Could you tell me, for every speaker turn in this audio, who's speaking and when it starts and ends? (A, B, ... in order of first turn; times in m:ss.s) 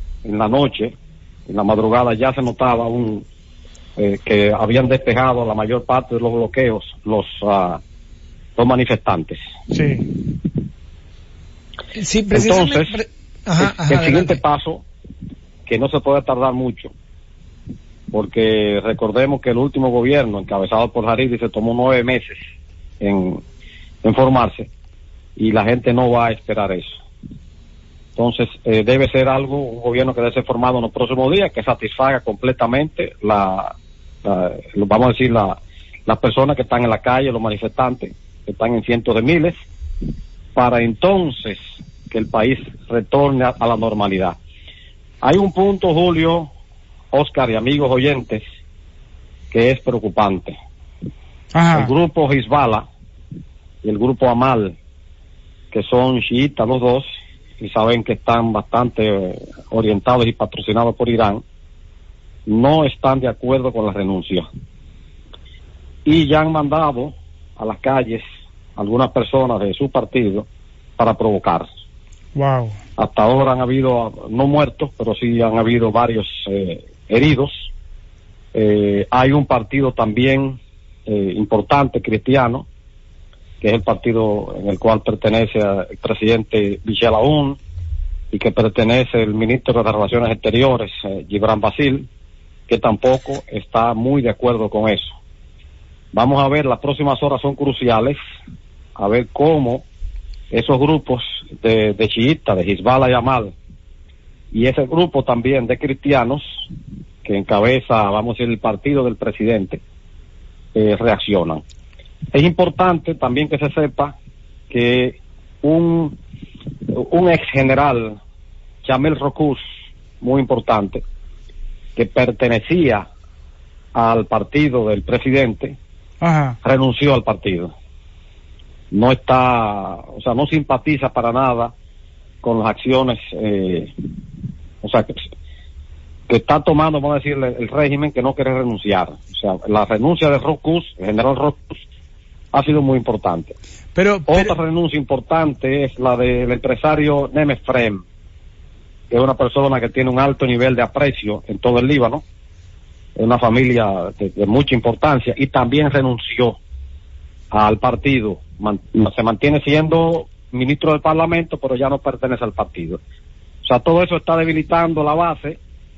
0:00.2-0:00.9 A
0:01.5-0:03.2 A
0:04.0-0:07.8 A
0:08.6-0:09.4 A
0:09.7-0:10.1 B
0:12.0-0:14.4 C
0:12.3-0:12.9 A
0:13.6-0:14.8 A
0:15.7-0:16.9 A
0:18.1-0:22.4 A
0:23.0-0:23.4 A
0:24.0-0:24.7 A
0:25.4-0:27.0 A
0:28.2-0:33.7 A
0:34.2-0:39.6 A
0:40.6-0:41.6 A
0:42.1-0:44.4 A
0:45.2-0:46.5 A
0:47.1-0:48.4 A
0:49.5-0:50.6 A
0:51.5-0:51.9 B
0:51.7-0:52.9 A
0:53.8-0:54.8 A
0:55.7-0:57.1 A
0:57.6-1:01.4 A
1:02.5-1:04.5 A
1:06.1-1:08.2 A
1:08.8-1:10.5 A
1:11.0-1:11.7 A
1:12.4-1:12.8 B
1:13.0-1:17.7 A
1:18.5-1:22.6 A
1:23.6-1:27.6 A
1:28.3-1:32.1 A
1:32.7-1:35.1 A
1:36.1-1:38.2 A
1:39.0-1:39.8 A
1:40.5-1:43.5 A
1:44.5-1:46.4 A
1:47.2-1:49.8 A
1:50.8-1:51.6 A
1:52.3-1:54.2 A
1:54.7-1:56.2 A
1:56.9-1:58.2 A
1:58.8-1:59.6 A
2:00.2-2:01.0 A
2:02.0-2:03.1 A
2:03.9-2:05.8 A
2:06.2-2:06.6 B
2:06.6-2:07.7 A
2:08.9-2:11.7 A
2:12.4-2:13.9 A
2:14.8-2:15.2 A
2:16.3-2:21.8 A
2:22.5-2:23.5 A
2:24.0-2:24.5 B
2:24.3-2:28.0 A
2:29.1-2:32.2 A
2:33.2-2:36.6 A
2:37.5-2:43.0 A
2:43.6-2:45.6 A